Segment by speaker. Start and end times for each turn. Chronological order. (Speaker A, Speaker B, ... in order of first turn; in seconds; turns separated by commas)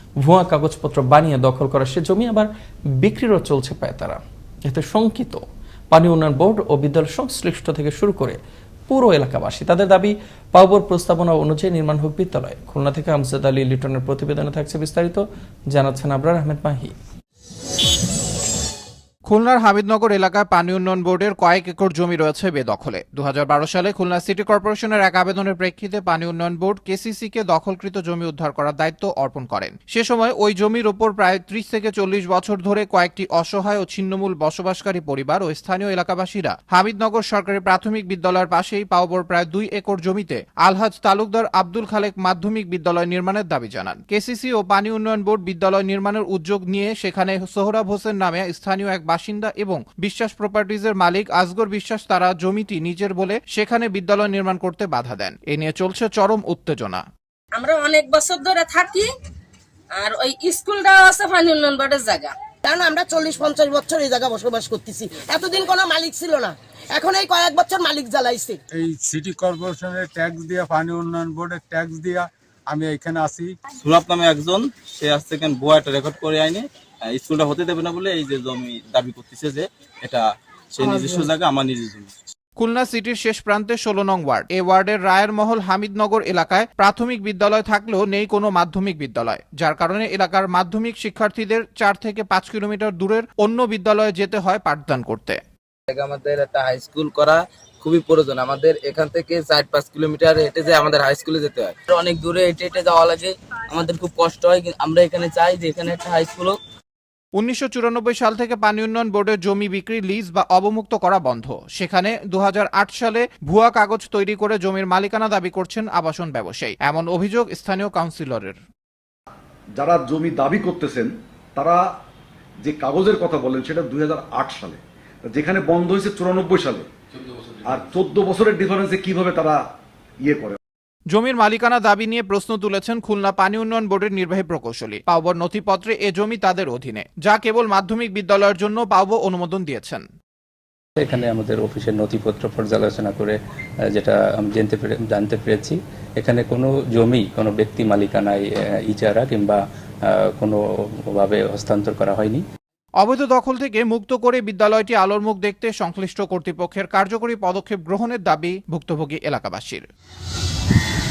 Speaker A: 0.2-16.9, Speaker B: 19.3-57.0, Speaker C: 57.6-59.1, Speaker C: 60.0-62.3, Speaker D: 62.6-68.6, Speaker E: 68.7-73.5, Speaker F: 73.8-80.2, Speaker F: 80.7-82.1, Speaker B: 82.6-95.4, Speaker G: 95.9-106.6, Speaker B: 107.4-118.6, Speaker H: 119.8-121.8, Speaker H: 122.6-126.9, Speaker H: 127.6-129.6, Speaker H: 130.2-130.6, Speaker B: 131.1-140.1, Speaker I: 141.0-143.4, Speaker I: 143.9-149.6, Speaker I: 150.1-150.6, Speaker I: 151.1-152.4, Speaker B: 153.0-159.9